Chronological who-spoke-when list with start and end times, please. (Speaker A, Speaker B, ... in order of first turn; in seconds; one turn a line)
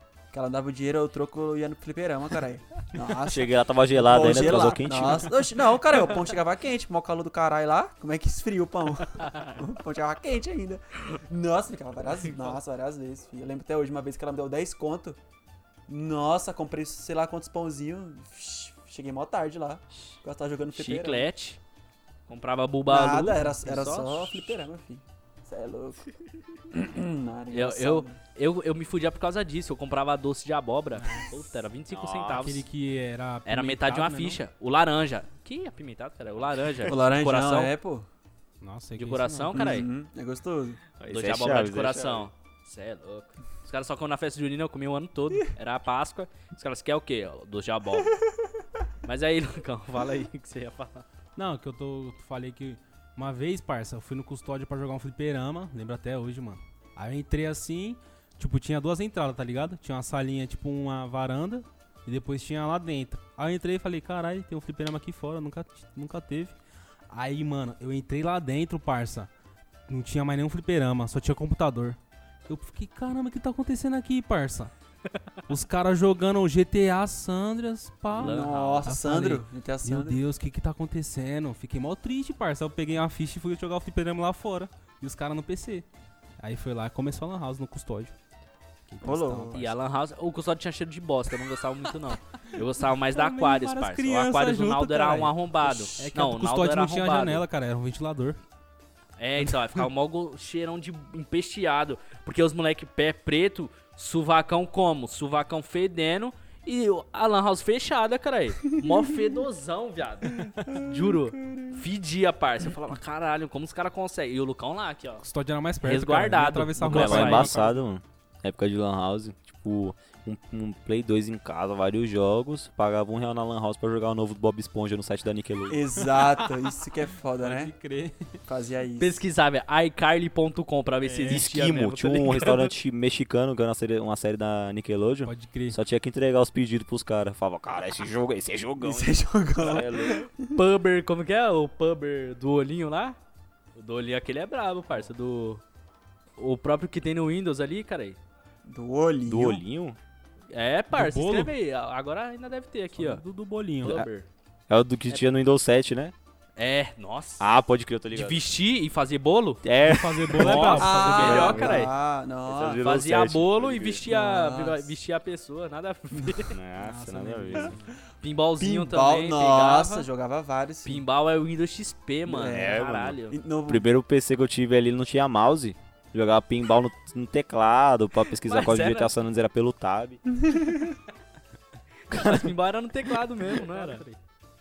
Speaker A: 0.3-15.2
Speaker B: 3.2-5.4
Speaker C: 9.2-9.6
Speaker A: 15.9-21.3
Speaker C: 20.7-21.6
Speaker C: 22.3-24.6
Speaker A: 22.9-26.1
Speaker A: 26.7-28.2
Speaker C: 27.5-32.7
Speaker D: 31.0-31.3
Speaker B: 31.9-32.5
Speaker D: 32.4-34.4
Speaker C: 33.5-37.7
Speaker A: 36.8-38.1
Speaker D: 38.6-39.8
Speaker C: 39.0-39.9
Speaker A: 39.5-40.8
Speaker B: 41.0-42.3
Speaker C: 41.1-48.2
Speaker C: 49.0-51.1
Speaker D: 51.4-66.6
Speaker D: 67.1-69.3
Speaker D: 69.9-74.7
Speaker D: 75.5-85.9
Speaker C: 78.1-79.0
Speaker A: 78.2-80.2
Speaker D: 86.4-88.1
Speaker D: 88.9-89.8
Speaker A: 89.0-89.6
Speaker C: 89.5-97.5
Speaker D: 93.0-95.3
Speaker A: 95.6-96.0
Speaker D: 96.0-98.4
Speaker C: 99.2-115.2
Speaker A: 108.8-109.3
Speaker A: 110.7-111.8
Speaker D: 115.2-117.9
Speaker C: 115.8-117.5
Speaker B: 116.8-125.8
Speaker A: 125.7-127.7
Speaker D: 126.0-126.7
Speaker D: 127.4-128.4
Speaker A: 128.5-129.2
Speaker C: 129.0-132.7
Speaker D: 131.0-131.5
Speaker B: 131.3-140.2
Speaker D: 135.2-135.8
Speaker A: 138.8-140.5
Speaker C: 140.5-143.2
Speaker C: 143.8-145.6
Speaker C: 146.4-148.2
Speaker A: 148.7-149.6
Speaker B: 149.3-150.0
Speaker C: 150.5-153.2
Speaker D: 150.9-151.5
Speaker D: 153.0-154.0
Speaker C: 153.8-154.3
Speaker B: 154.7-156.1
Speaker C: 156.6-157.5
Speaker B: 157.4-158.4
Speaker C: 158.1-159.6
Speaker B: 159.6-161.9
Speaker D: 159.8-161.6
Speaker C: 160.3-161.9
Speaker A: 160.6-162.8
Speaker B: 162.5-164.1
Speaker C: 162.8-166.6
Speaker A: 164.1-164.9
Speaker B: 166.5-167.8
Speaker D: 166.8-167.8
Speaker C: 168.2-170.1
Speaker A: 168.6-171.0
Speaker C: 170.8-173.4
Speaker A: 172.3-173.9
Speaker B: 172.4-180.2
Speaker C: 178.4-179.1
Speaker A: 180.3-181.0
Speaker C: 182.1-184.1
Speaker B: 182.1-182.5
Speaker D: 183.5-184.2